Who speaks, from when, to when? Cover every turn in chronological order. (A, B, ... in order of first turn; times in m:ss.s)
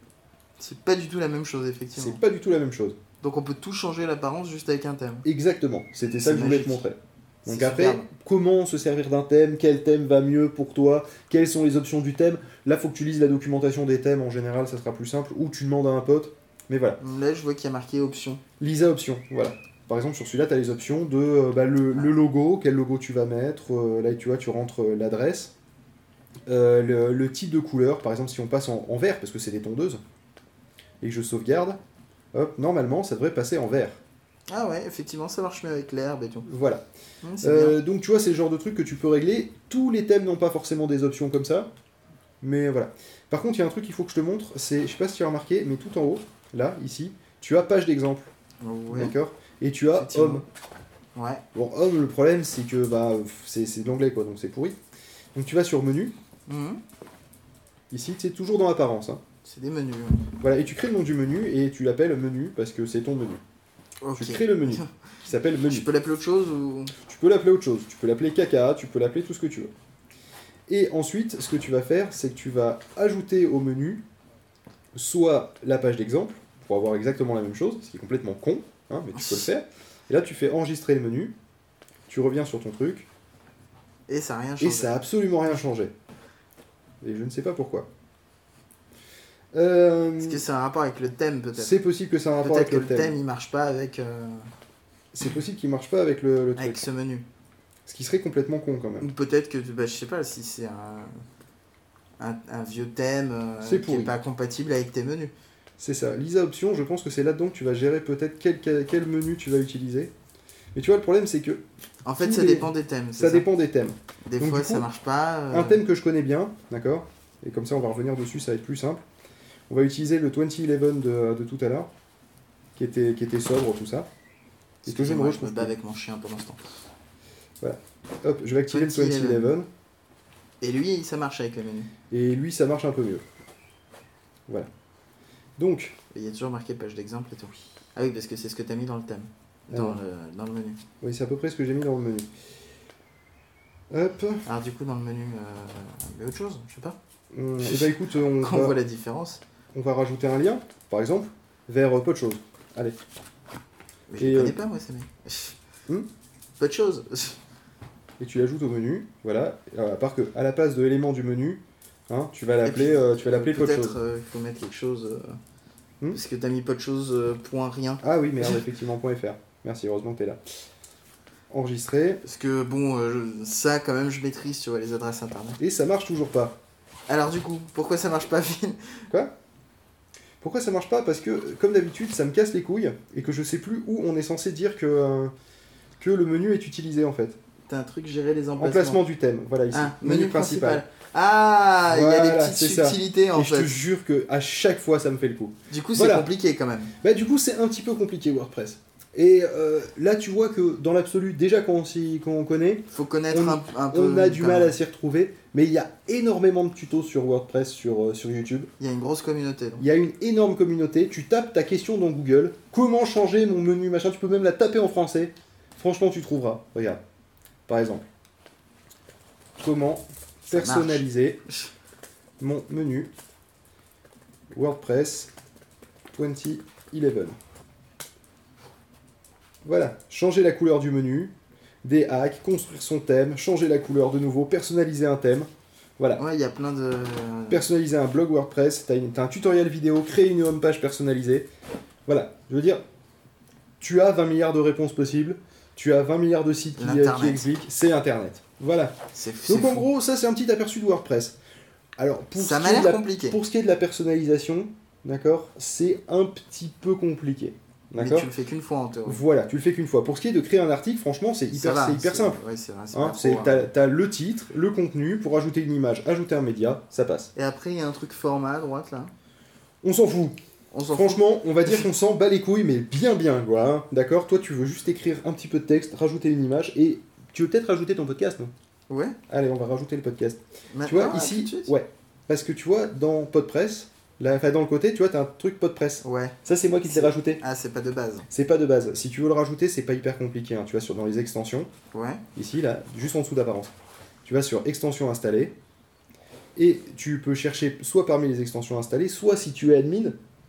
0:00.6-0:02.2 A
0:02.0-0:03.0 B
0:03.2-0:05.3 A
0:05.2-0:17.0 B
0:06.2-0:06.9 A
0:07.4-0:08.1 A
0:17.0-0:18.4 A
0:18.6-0:25.5 B
0:26.5-0:30.0 B
0:31.0-0:31.8 B
0:32.3-0:34.0 B
0:34.5-0:36.5 A
0:36.4-0:36.8 B
0:37.2-0:37.8 A
0:37.4-0:41.7 B
0:42.4-0:48.3 B
0:48.6-0:49.1 A
0:48.9-0:50.4 B
0:49.9-0:50.5 A
0:51.2-0:51.4 A
0:51.5-0:54.8 B
0:55.4-0:56.1 B
0:56.5-0:56.8 A
0:57.9-0:59.2 B
0:59.4-1:00.2 A
1:00.4-1:03.4 B
1:04.0-1:04.9 A
1:04.2-1:05.9 B
1:05.7-1:06.9 A
1:07.0-1:09.7 B
1:10.7-1:14.0 B
1:15.0-1:21.4 B
1:19.1-1:19.5 A
1:22.1-1:23.1 B
1:24.1-1:25.0 A
1:24.6-1:25.9 B
1:27.0-1:27.9 B
1:29.5-1:30.4 B
1:30.2-1:31.8 A
1:31.6-1:33.2 B
1:32.4-1:34.5 A
1:35.1-1:36.9 B
1:36.6-1:37.3 A
1:37.9-1:39.1 B
1:39.0-1:41.1 A
1:42.2-1:45.3 A
1:43.6-1:44.2 B
1:45.8-1:50.1 B
1:50.7-1:51.6 B
1:52.0-1:53.5 A
1:52.2-1:54.9 B
1:54.3-1:55.8 A
1:55.5-1:59.0 B
1:59.7-2:01.9 B
2:02.8-2:04.1 B
2:04.8-2:06.6 A
2:04.9-2:05.7 B
2:07.6-2:09.7 B
2:08.7-2:09.6 A
2:10.6-2:11.9 A
2:12.1-2:13.2 B
2:15.6-2:16.0 B
2:16.1-2:20.8 A
2:19.7-2:20.0 B
2:21.0-2:22.3 B
2:23.9-2:24.4 B
2:24.4-2:27.0 A
2:27.3-2:28.8 B
2:27.6-2:29.4 A
2:29.7-2:33.0 B
2:34.1-2:35.6 A
2:34.2-2:34.6 B
2:36.6-2:37.4 A
2:38.2-2:44.0 B
2:42.6-2:45.4 A
2:46.1-2:48.6 A
2:48.0-2:50.4 B
2:51.5-2:52.2 B
2:52.2-2:55.6 A
2:55.6-2:56.6 B
2:57.1-2:59.0 A
3:00.4-3:05.3 B
3:06.0-3:07.4 B
3:07.7-3:09.0 A
3:08.6-3:10.8 B
3:09.7-3:13.8 A
3:11.9-3:16.3 B
3:15.7-3:16.9 A
3:17.0-3:28.7 B
3:22.9-3:24.8 A
3:28.8-3:29.8 A
3:29.8-3:37.0 B
3:37.7-3:38.0 B
3:39.6-3:41.4 B
3:40.5-3:41.7 A
3:42.4-3:43.1 B
3:44.5-3:45.3 B
3:46.1-3:47.4 B
3:49.6-3:56.2 B
3:56.2-3:57.7 A
3:57.5-4:01.5 B
4:02.1-4:02.8 B
4:03.8-4:11.4 B
4:06.8-4:07.5 A
4:09.1-4:09.9 A
4:12.0-4:18.3 B
4:12.4-4:13.4 A
4:18.0-4:19.2 A
4:19.1-4:22.4 B
4:21.5-4:23.7 A
4:22.9-4:27.3 B
4:27.4-4:29.1 A
4:29.8-4:30.4 B
4:30.7-4:31.9 A
4:30.9-4:38.5 B
4:38.9-4:39.2 A
4:39.3-4:47.4 B
4:40.7-4:41.8 A
4:46.0-4:48.3 A
4:48.3-4:51.7 B
4:51.9-4:52.2 A
4:52.4-4:53.7 B
4:54.2-4:55.6 B
4:56.6-5:00.2 B